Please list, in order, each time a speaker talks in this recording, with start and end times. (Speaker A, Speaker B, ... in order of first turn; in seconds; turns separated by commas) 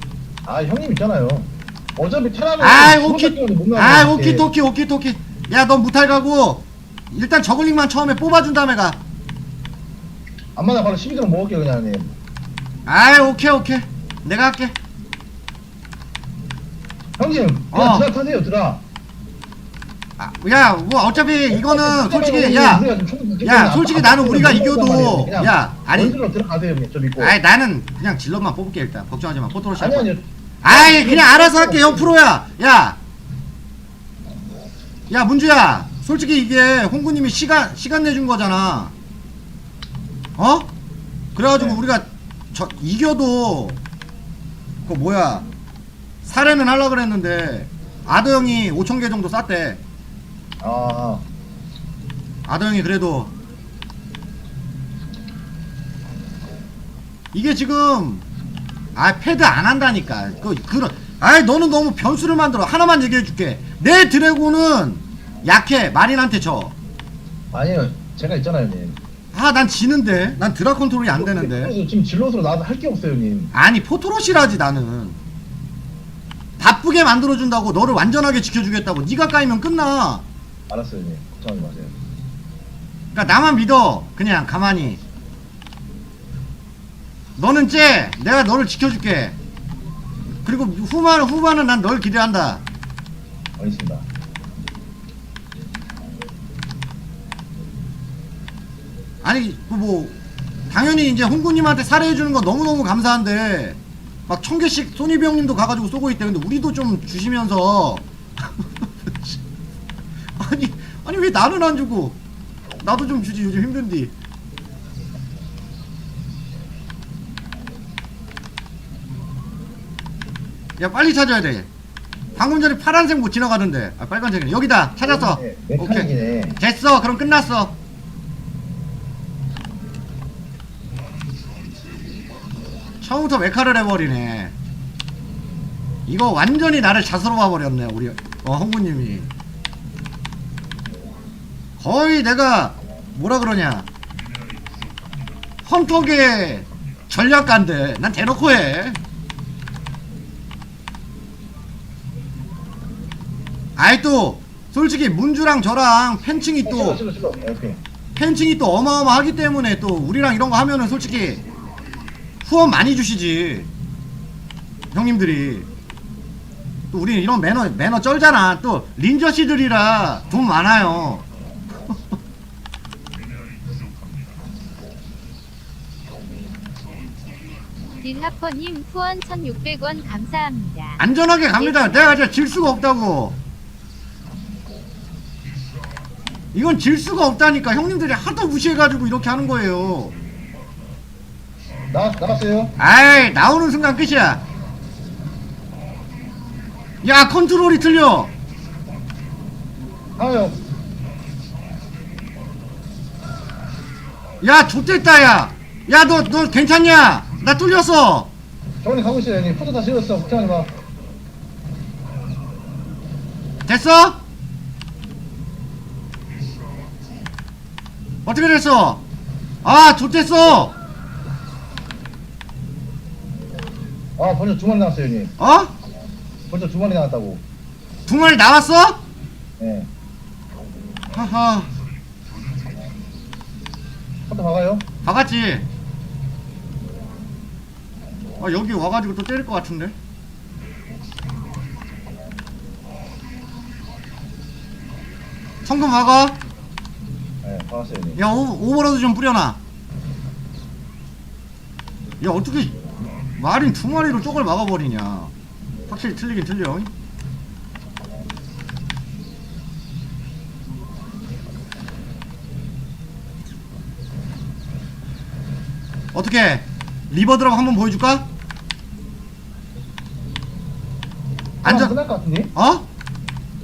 Speaker A: 0.4-4.5, Speaker B: 2.6-9.0, Speaker A: 10.6-12.2, Speaker B: 12.8-14.7, Speaker A: 17.2-18.8, Speaker B: 17.7-18.1, Speaker B: 20.2-22.9, Speaker A: 21.5-27.4, Speaker B: 23.4-26.1, Speaker B: 27.2-30.1, Speaker A: 29.7-32.1, Speaker B: 30.6-33.0, Speaker B: 35.1-38.9, Speaker B: 40.4-40.7, Speaker B: 41.3-43.8, Speaker A: 41.5-41.8, Speaker B: 44.8-45.5, Speaker B: 46.2-49.8, Speaker A: 50.6-51.2, Speaker B: 52.5-53.3, Speaker B: 57.3-58.2, Speaker B: 58.9-66.7, Speaker A: 67.5-69.0, Speaker B: 69.3-71.7, Speaker A: 71.1-73.5, Speaker B: 73.5-75.2, Speaker B: 76.6-80.2, Speaker A: 80.7-81.9, Speaker B: 83.1-85.0, Speaker B: 87.4-89.3, Speaker B: 90.4-92.6, Speaker A: 93.6-94.0, Speaker B: 99.2-100.2, Speaker B: 100.7-109.4, Speaker B: 110.4-112.2, Speaker B: 112.8-114.1, Speaker B: 120.8-121.7, Speaker B: 122.3-127.7, Speaker A: 125.0-126.6, Speaker B: 133.0-134.5, Speaker B: 136.1-139.3, Speaker B: 141.8-143.9, Speaker B: 145.6-149.0, Speaker B: 153.8-157.0, Speaker A: 156.6-157.8, Speaker B: 158.1-161.4, Speaker B: 162.4-163.7, Speaker B: 164.9-165.7, Speaker B: 166.9-171.2, Speaker C: 178.0-181.0, Speaker B: 181.0-183.4, Speaker C: 181.6-182.0, Speaker B: 186.5-190.1, Speaker A: 191.9-192.7, Speaker B: 192.8-194.4, Speaker B: 197.0-198.3, Speaker A: 200.2-200.6, Speaker B: 204.4-208.3, Speaker A: 208.8-210.7, Speaker B: 213.7-214.2, Speaker B: 218.2-219.0, Speaker B: 219.6-220.8, Speaker A: 224.2-225.3, Speaker B: 225.4-225.7, Speaker A: 226.5-227.4, Speaker B: 228.1-229.0, Speaker A: 229.6-229.9, Speaker B: 231.1-231.7, Speaker A: 234.3-234.9, Speaker B: 235.0-235.7, Speaker B: 238.4-239.9, Speaker B: 245.6-246.4, Speaker A: 247.4-248.2, Speaker B: 248.2-249.6, Speaker B: 252.2-252.8, Speaker B: 253.4-255.3, Speaker B: 255.9-256.9, Speaker B: 266.1-268.2, Speaker B: 271.6-271.9, Speaker A: 271.6-272.5, Speaker B: 272.5-272.9